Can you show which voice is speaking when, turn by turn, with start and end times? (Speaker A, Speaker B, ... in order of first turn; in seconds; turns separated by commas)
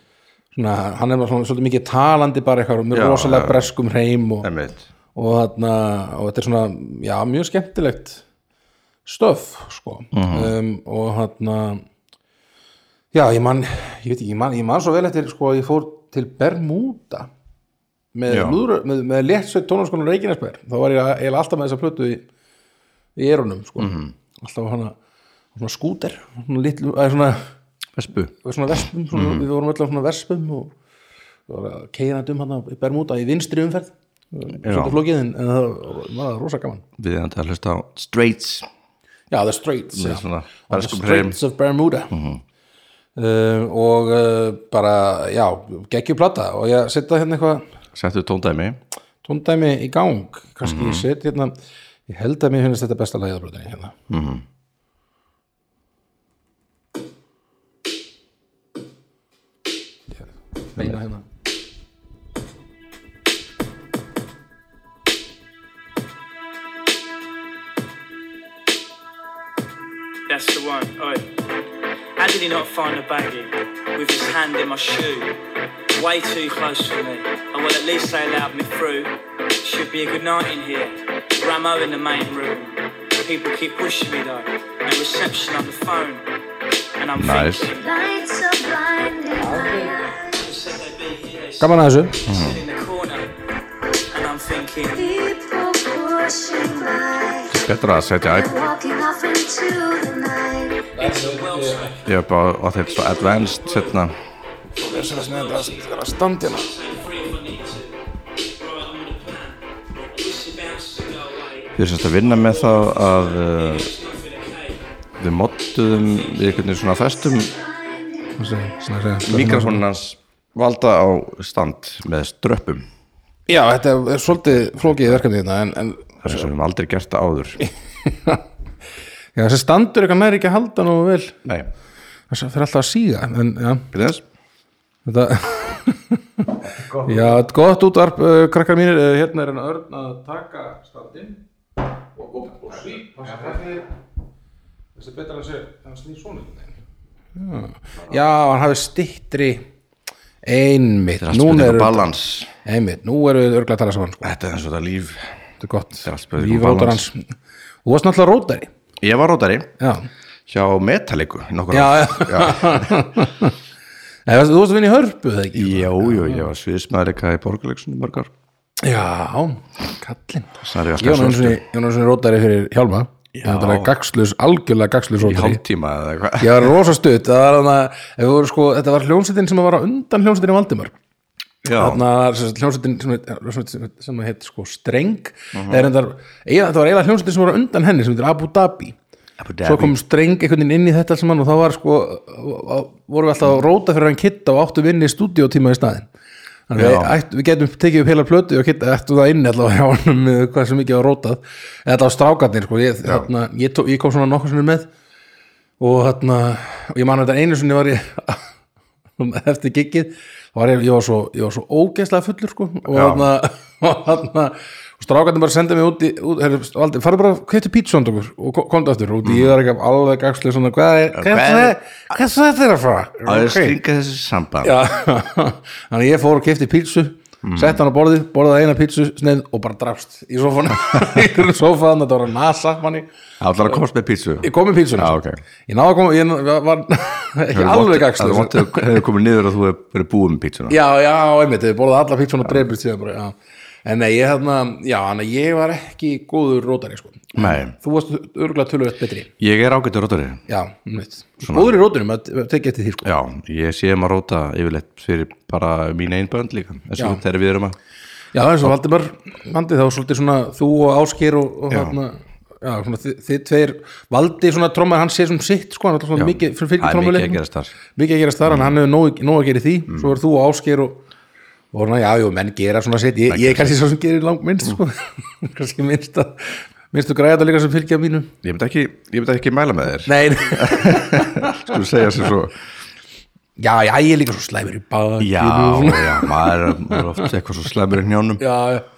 Speaker A: 0.5-4.5, Speaker B: 2.9-3.7, Speaker B: 4.4-4.9, Speaker A: 5.1-8.2, Speaker A: 9.0-11.8, Speaker B: 10.1-10.5, Speaker A: 13.1-17.3, Speaker A: 18.1-22.3, Speaker B: 18.3-18.6, Speaker A: 23.1-24.9, Speaker B: 23.8-24.1, Speaker A: 25.5-27.5, Speaker B: 27.9-28.3, Speaker A: 28.4-30.7, Speaker B: 29.1-29.4, Speaker A: 31.5-36.8, Speaker B: 34.6-35.0, Speaker B: 37.0-38.7, Speaker A: 39.3-42.1, Speaker B: 39.9-41.4, Speaker B: 42.1-42.4, Speaker A: 43.1-47.6, Speaker B: 47.9-48.8, Speaker A: 49.2-51.5, Speaker B: 50.6-51.0, Speaker A: 52.1-54.0, Speaker B: 54.1-54.4, Speaker A: 60.2-61.2, Speaker C: 70.3-71.2, Speaker C: 72.2-75.3, Speaker C: 75.9-86.2, Speaker C: 87.0-88.2, Speaker B: 87.2-87.7, Speaker D: 87.9-89.8, Speaker A: 89.3-90.0, Speaker C: 90.2-93.3, Speaker A: 91.6-92.2, Speaker B: 92.2-92.6, Speaker C: 94.1-95.3, Speaker D: 95.2-97.5, Speaker B: 97.5-98.7, Speaker D: 98.5-100.8, Speaker A: 100.9-102.0, Speaker C: 101.0-102.1, Speaker B: 102.0-104.1, Speaker C: 103.0-104.0, Speaker A: 104.8-106.7, Speaker C: 104.8-108.0, Speaker C: 108.6-114.8, Speaker B: 111.7-113.9, Speaker B: 115.2-117.5, Speaker C: 116.0-116.5, Speaker D: 117.8-118.3, Speaker A: 118.3-119.8, Speaker B: 119.2-122.9, Speaker A: 123.5-126.5, Speaker B: 124.7-125.2, Speaker B: 126.2-127.6, Speaker A: 128.0-128.4, Speaker A: 129.3-131.4, Speaker B: 131.4-131.7, Speaker A: 132.3-133.9, Speaker B: 133.9-134.2, Speaker A: 135.0-141.4, Speaker B: 136.8-137.3, Speaker A: 142.1-143.9, Speaker A: 144.9-146.7, Speaker A: 147.3-149.7, Speaker A: 150.4-152.1, Speaker B: 151.2-152.5, Speaker A: 152.6-154.3, Speaker B: 154.2-155.3, Speaker A: 155.6-157.2, Speaker B: 156.0-157.0, Speaker A: 157.8-158.7, Speaker B: 159.0-159.7, Speaker A: 159.8-160.1, Speaker B: 160.5-162.9, Speaker A: 161.7-163.5, Speaker A: 164.2-166.5, Speaker B: 165.5-168.3, Speaker A: 168.8-175.6, Speaker B: 170.6-171.6, Speaker B: 173.3-173.9, Speaker B: 175.2-176.8, Speaker A: 176.4-180.9, Speaker B: 181.6-182.0, Speaker A: 181.7-189.0, Speaker B: 185.5-185.9, Speaker B: 189.4-189.9, Speaker A: 189.6-196.1, Speaker A: 196.7-204.9, Speaker B: 196.7-197.1, Speaker A: 205.8-208.4, Speaker A: 209.2-223.8, Speaker B: 212.9-213.3, Speaker B: 219.2-219.6, Speaker B: 221.1-221.8, Speaker B: 223.2-224.7, Speaker A: 224.6-233.1, Speaker B: 227.4-227.8, Speaker B: 233.4-235.4, Speaker A: 234.4-239.0, Speaker B: 237.5-240.8, Speaker A: 240.7-249.3, Speaker B: 247.3-247.7, Speaker B: 249.4-250.4, Speaker A: 250.5-253.1, Speaker B: 251.4-251.8, Speaker B: 253.0-257.8, Speaker A: 258.3-267.4, Speaker B: 261.7-261.9, Speaker B: 266.1-267.7, Speaker A: 267.9-271.0, Speaker B: 268.4-268.7, Speaker B: 269.9-270.1, Speaker A: 271.7-278.3, Speaker B: 273.3-273.7, Speaker B: 278.4-282.6, Speaker A: 280.1-281.8, Speaker A: 283.6-287.2, Speaker B: 285.2-288.4, Speaker A: 288.4-288.9